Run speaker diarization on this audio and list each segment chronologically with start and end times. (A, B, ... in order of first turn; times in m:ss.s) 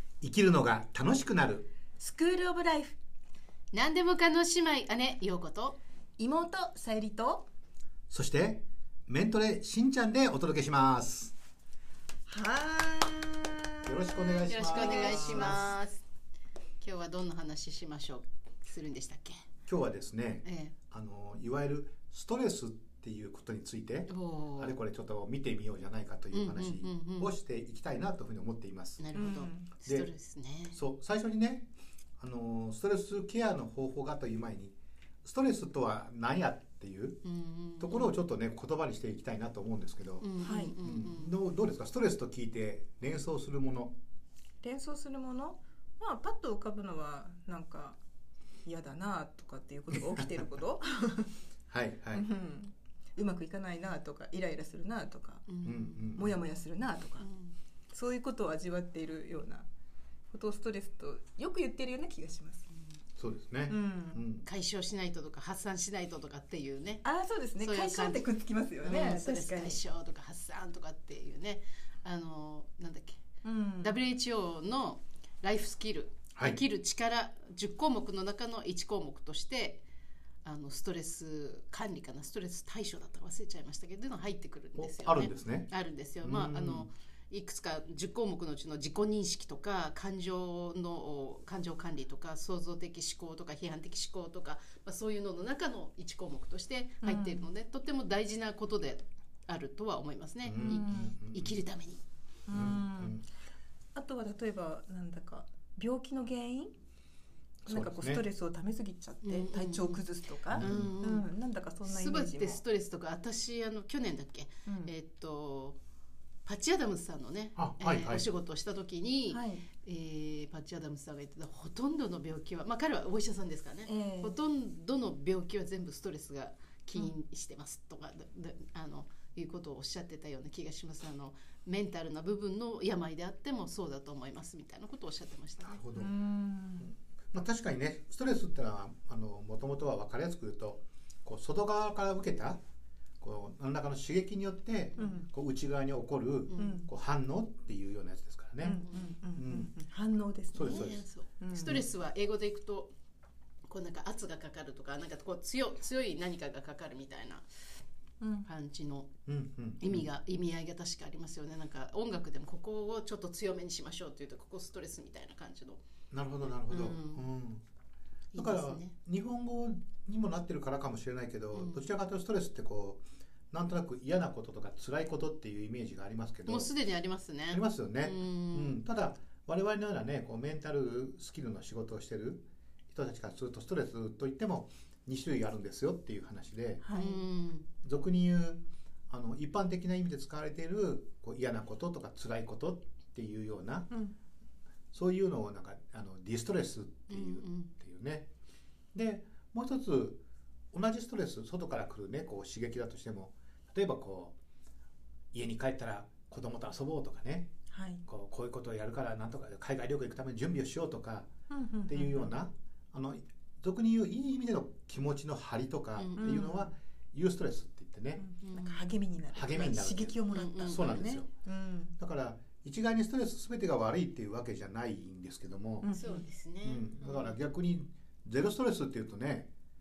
0:00.2-0:01.7 A
0:02.0-0:03.0 B
0:03.7-0:05.8 C
0:06.2-0:07.5 B
0:08.1-0:11.3 A
0:12.3-0:15.8 B
0:13.8-0:15.7 A
0:14.4-0:16.0 C
0:16.8-0:19.4 C
0:19.7-0:29.0 A
0:20.4-0:20.7 C
0:24.1-0:24.8 C
0:26.3-0:27.3 C
0:29.0-0:30.8 C
0:29.1-0:29.7 B
0:30.7-0:37.2 A
0:37.2-0:38.2 C
0:37.8-0:43.9 A
0:40.2-0:41.3 C
0:40.4-0:40.7 B
0:44.6-0:48.0 B
0:48.6-0:51.3 B
0:49.9-0:50.2 A
0:51.7-0:52.3 A
0:52.1-0:55.5 B
0:55.5-0:56.1 C
0:55.6-0:56.3 A
0:56.1-0:57.3 B
0:57.2-0:57.5 C
0:57.9-0:59.7 B
1:00.3-1:02.7 B
1:03.2-1:04.4 A
1:03.7-1:04.2 B
1:04.4-1:07.0 C
1:07.0-1:09.8 B
1:07.6-1:08.3 C
1:08.8-1:13.2 C
1:13.4-1:14.0 B
1:13.8-1:19.8 C
1:16.3-1:16.6 A
1:20.4-1:42.0 C
1:24.8-1:25.7 A
1:26.2-1:26.9 A
1:37.0-1:37.5 B
1:40.4-1:41.6 A
1:40.6-1:41.1 B
1:42.5-1:43.2 B
1:42.5-1:43.2 A
1:43.9-1:46.7 B
1:47.6-1:52.6 B
1:47.7-1:48.2 A
1:49.2-1:51.3 C
1:50.5-1:51.0 A
1:51.8-1:55.8 C
1:54.6-1:54.9 B
1:56.4-2:15.8 C
1:57.6-1:58.2 A
1:59.3-1:59.6 B
2:03.8-2:04.4 B
2:15.6-2:16.1 A
2:15.9-2:16.9 B
2:16.8-2:22.6 A
2:23.2-2:28.8 A
2:25.0-2:25.3 B
2:26.5-2:26.8 C
2:26.6-2:26.9 B
2:28.6-2:31.8 B
2:29.4-2:29.7 A
2:30.5-2:31.0 A
2:30.6-2:32.9 C
2:33.7-2:37.4 C
2:38.2-2:38.5 B
2:38.4-2:39.2 C
2:39.2-2:40.1 A
2:39.8-2:45.8 C
2:46.1-2:47.6 A
2:46.7-2:47.2 C
2:48.3-2:48.9 C
2:48.3-2:56.7 A
2:51.5-2:51.8 C
2:56.5-2:58.8 C
2:57.5-3:06.8 A
3:06.8-3:07.2 B
3:06.9-3:07.6 C
3:07.8-3:13.9 A
3:13.9-3:14.1 B
3:14.9-3:18.3 A
3:17.1-3:17.7 C
3:18.9-3:20.2 A
3:20.7-3:24.3 A
3:25.3-3:27.5 A
3:27.7-3:28.0 B
3:28.0-3:31.3 A
3:31.5-3:32.3 B
3:31.9-3:38.2 A
3:36.0-3:36.7 C
3:36.2-3:36.6 B
3:38.2-3:41.9 B
3:38.4-3:38.8 C
3:39.3-3:41.3 A
3:40.3-3:41.0 C
3:42.0-3:45.9 A
3:45.8-3:46.2 B
3:45.9-3:47.4 C
3:46.6-3:49.5 A